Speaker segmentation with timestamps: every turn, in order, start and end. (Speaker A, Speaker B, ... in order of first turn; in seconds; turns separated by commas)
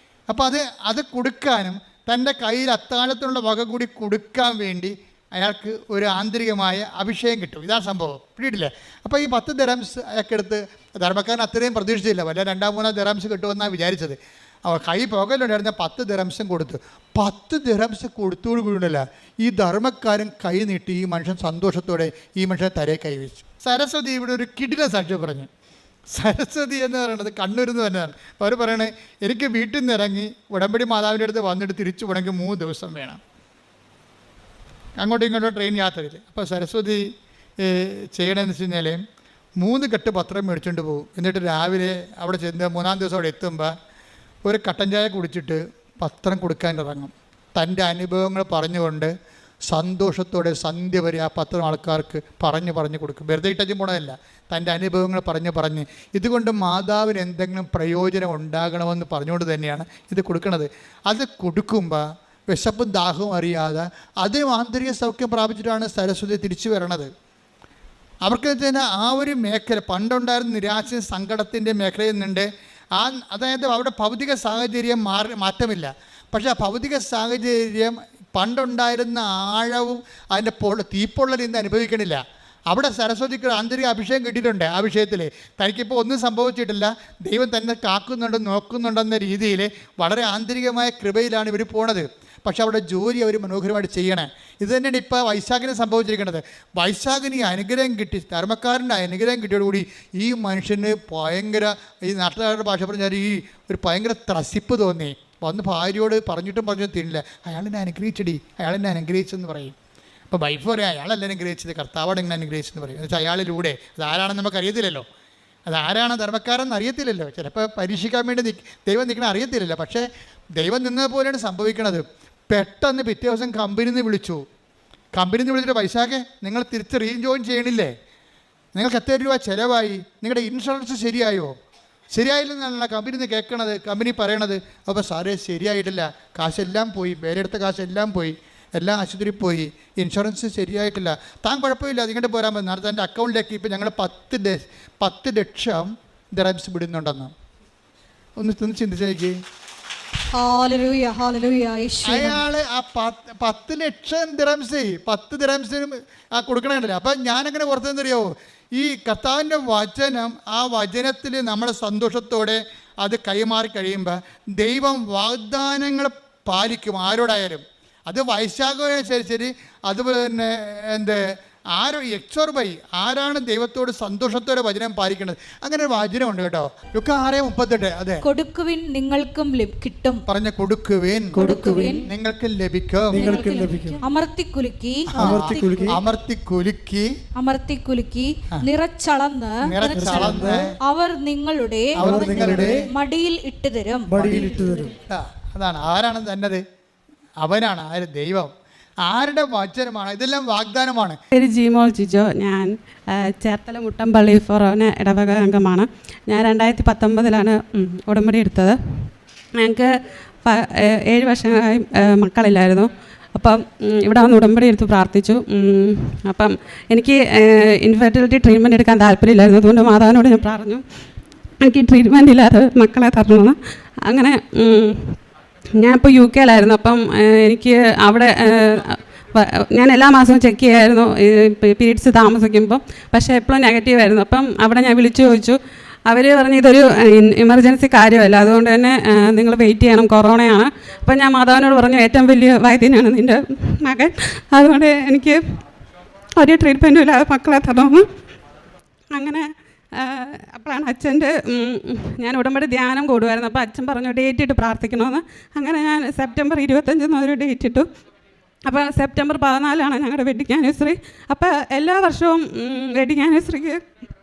Speaker A: 0.3-25.5, Speaker A: 26.1-33.2, Speaker A: 35.0-37.0, Speaker A: 37.6-39.0, Speaker A: 39.6-43.7, Speaker A: 44.5-49.1, Speaker A: 49.7-67.1, Speaker A: 68.2-109.8, Speaker A: 110.3-115.0, Speaker A: 115.7-120.0, Speaker A: 120.6-124.4, Speaker A: 125.2-127.9, Speaker A: 128.8-131.6, Speaker A: 132.1-147.3, Speaker A: 148.4-149.4, Speaker B: 150.3-152.4, Speaker A: 152.1-171.2, Speaker A: 171.8-178.2, Speaker B: 178.2-180.2, Speaker A: 180.3-181.4, Speaker C: 181.3-182.1, Speaker B: 181.4-182.1, Speaker A: 182.1-183.3, Speaker C: 183.1-184.1, Speaker B: 183.2-186.0, Speaker A: 185.1-187.1, Speaker C: 185.2-186.0, Speaker B: 187.4-194.4, Speaker A: 189.6-190.8, Speaker C: 189.9-190.6, Speaker A: 192.0-192.9, Speaker C: 192.0-192.8, Speaker C: 194.1-194.9, Speaker A: 194.2-194.5, Speaker A: 195.1-196.6, Speaker A: 197.4-198.5, Speaker A: 199.0-201.2, Speaker D: 201.3-209.9, Speaker D: 210.4-220.8, Speaker D: 221.6-225.2, Speaker D: 225.8-245.4, Speaker D: 246.4-248.1, Speaker D: 249.1-257.9, Speaker D: 258.7-263.8